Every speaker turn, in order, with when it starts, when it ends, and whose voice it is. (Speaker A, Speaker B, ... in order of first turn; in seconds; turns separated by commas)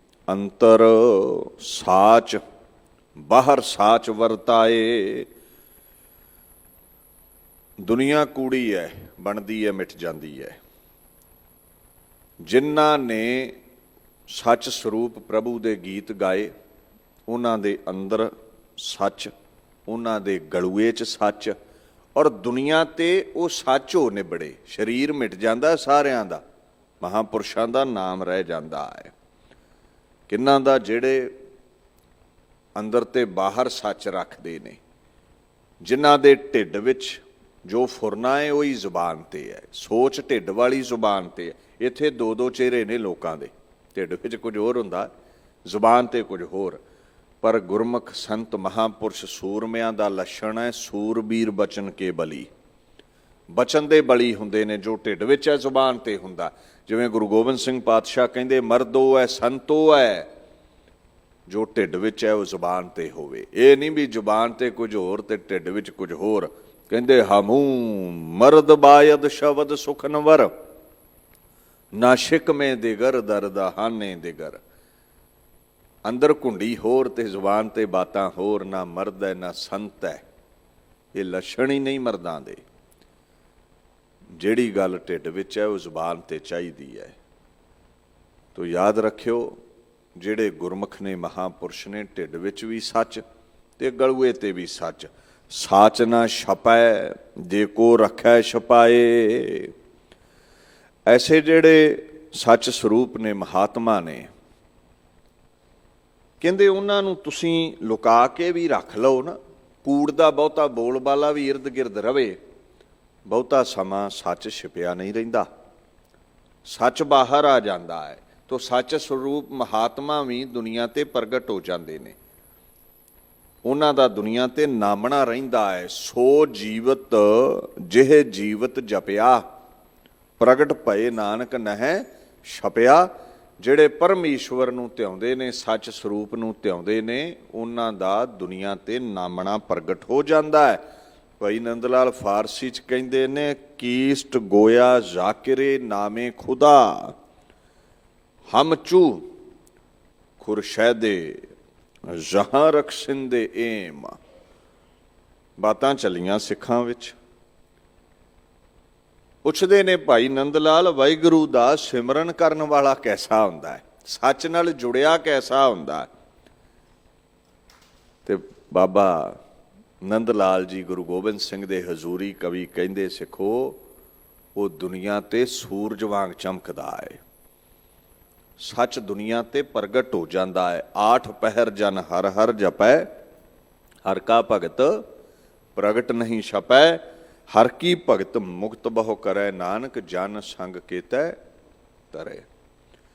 Speaker A: 0.3-2.4, Speaker A: 3.3-5.3, Speaker A: 7.8-10.6, Speaker A: 12.4-13.5, Speaker A: 14.3-16.5, Speaker A: 17.3-19.3, Speaker A: 19.9-21.6, Speaker A: 22.1-26.4, Speaker A: 27.0-29.1, Speaker A: 30.3-31.3, Speaker A: 32.8-34.8, Speaker A: 35.8-45.1, Speaker A: 45.6-46.8, Speaker A: 47.4-52.5, Speaker A: 53.5-60.3, Speaker A: 61.5-70.5, Speaker A: 71.9-74.6, Speaker A: 76.0-80.2, Speaker A: 81.1-82.6, Speaker A: 84.4-87.2, Speaker A: 88.5-89.5, Speaker A: 90.2-93.2, Speaker A: 93.8-99.7, Speaker A: 101.1-104.3, Speaker A: 106.4-112.4, Speaker A: 113.3-115.5, Speaker A: 116.6-122.2, Speaker A: 123.6-129.4, Speaker A: 130.4-140.8, Speaker A: 141.4-147.1, Speaker A: 148.5-149.2, Speaker A: 150.4-151.4, Speaker A: 152.1-154.2, Speaker A: 155.6-157.2, Speaker A: 159.4-166.1, Speaker A: 168.2-169.4, Speaker A: 170.0-173.8, Speaker A: 174.5-177.2, Speaker A: 178.6-183.1, Speaker A: 184.0-185.0, Speaker A: 185.8-191.4, Speaker A: 192.1-192.4